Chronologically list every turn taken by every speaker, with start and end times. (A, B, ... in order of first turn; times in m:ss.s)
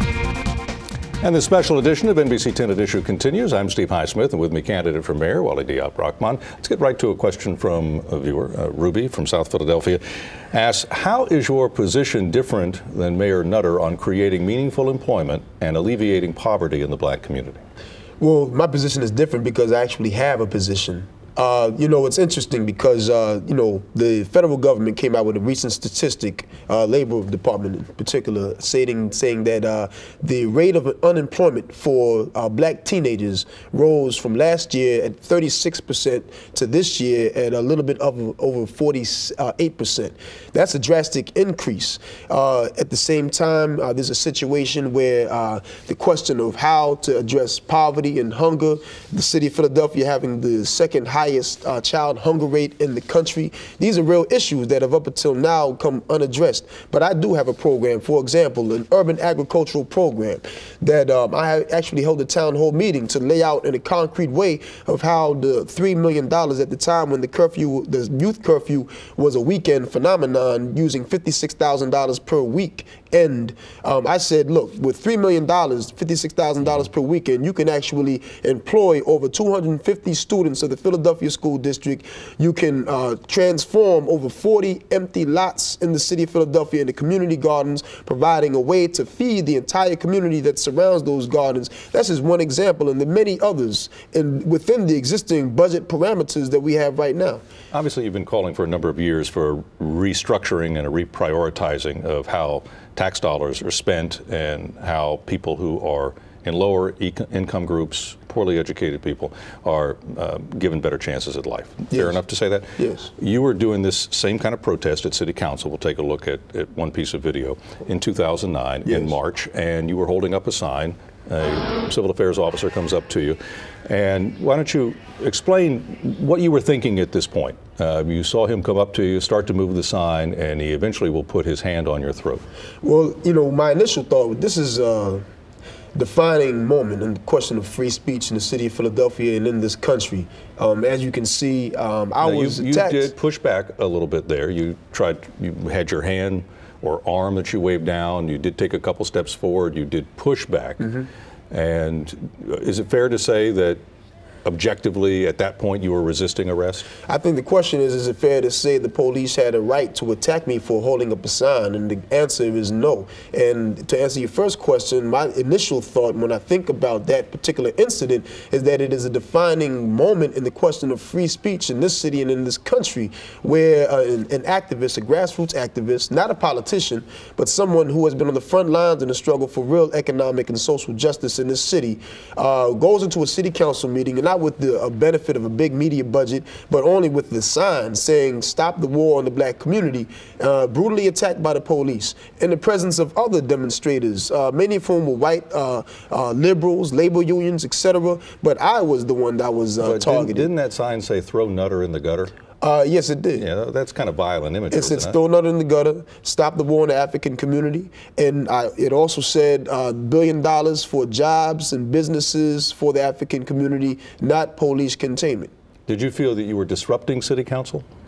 0:01.2-0:10.0 A
0:10.5-0:17.6 A
0:18.2-1:37.4 B
1:37.7-2:12.4 A
1:51.9-1:52.2 B
1:52.8-1:53.1 B
1:58.9-1:59.2 B
2:12.8-2:15.2 B
2:16.0-2:23.1 B
2:22.2-2:31.0 A
2:31.5-2:33.8 A
2:34.5-2:36.9 A
2:37.0-3:20.5 B
3:19.8-3:22.3 A
3:22.6-3:23.5 B
3:23.4-3:25.2 A
3:24.7-3:35.5 B
3:35.9-3:37.9 A